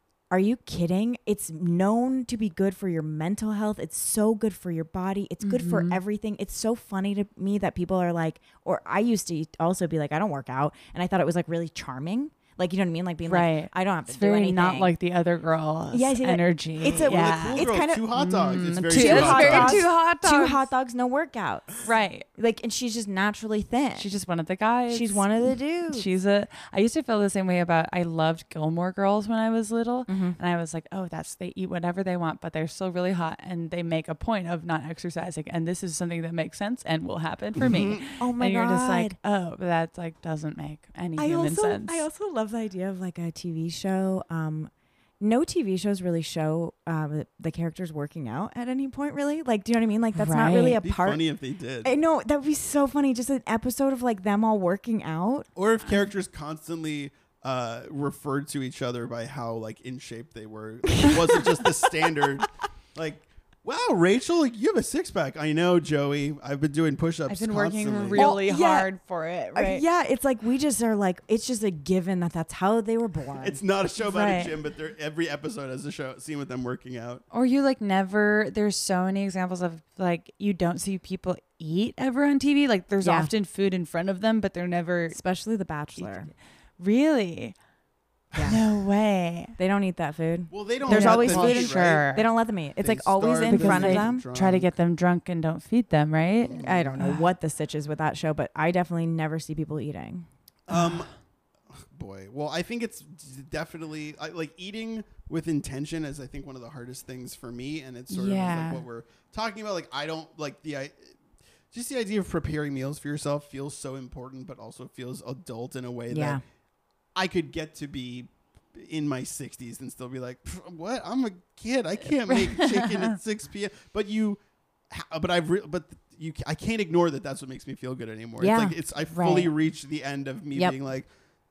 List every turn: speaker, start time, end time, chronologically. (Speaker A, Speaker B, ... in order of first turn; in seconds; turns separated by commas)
Speaker A: 0.3-14.9, Speaker B: 5.4-6.0, Speaker B: 13.3-20.7, Speaker A: 15.9-18.1, Speaker C: 16.9-19.9, Speaker A: 18.9-21.8, Speaker B: 21.8-22.3, Speaker A: 22.4-24.1, Speaker B: 24.0-42.0, Speaker A: 24.9-26.1, Speaker A: 30.1-30.4, Speaker C: 37.6-38.0, Speaker A: 38.2-39.2, Speaker A: 41.2-51.2, Speaker B: 50.1-50.8, Speaker C: 50.8-51.9, Speaker A: 51.8-55.5, Speaker C: 55.5-68.3, Speaker B: 67.3-69.8, Speaker A: 68.2-68.9, Speaker A: 69.5-73.6, Speaker C: 73.4-77.2, Speaker B: 74.0-74.5, Speaker B: 77.3-85.2, Speaker A: 83.0-83.3, Speaker A: 85.1-86.3, Speaker B: 86.0-87.5, Speaker C: 88.3-88.6, Speaker B: 88.4-89.5, Speaker A: 89.6-94.2, Speaker C: 90.5-92.1, Speaker B: 90.9-92.3, Speaker C: 92.8-94.7, Speaker B: 93.5-97.3, Speaker C: 96.4-97.0, Speaker A: 96.6-100.3, Speaker C: 100.7-101.1, Speaker B: 100.7-101.1, Speaker C: 101.7-111.2, Speaker B: 108.1-108.8, Speaker C: 111.7-116.4, Speaker A: 116.1-116.4, Speaker C: 117.1-131.1, Speaker B: 122.3-123.2, Speaker A: 128.4-128.7, Speaker B: 129.1-129.5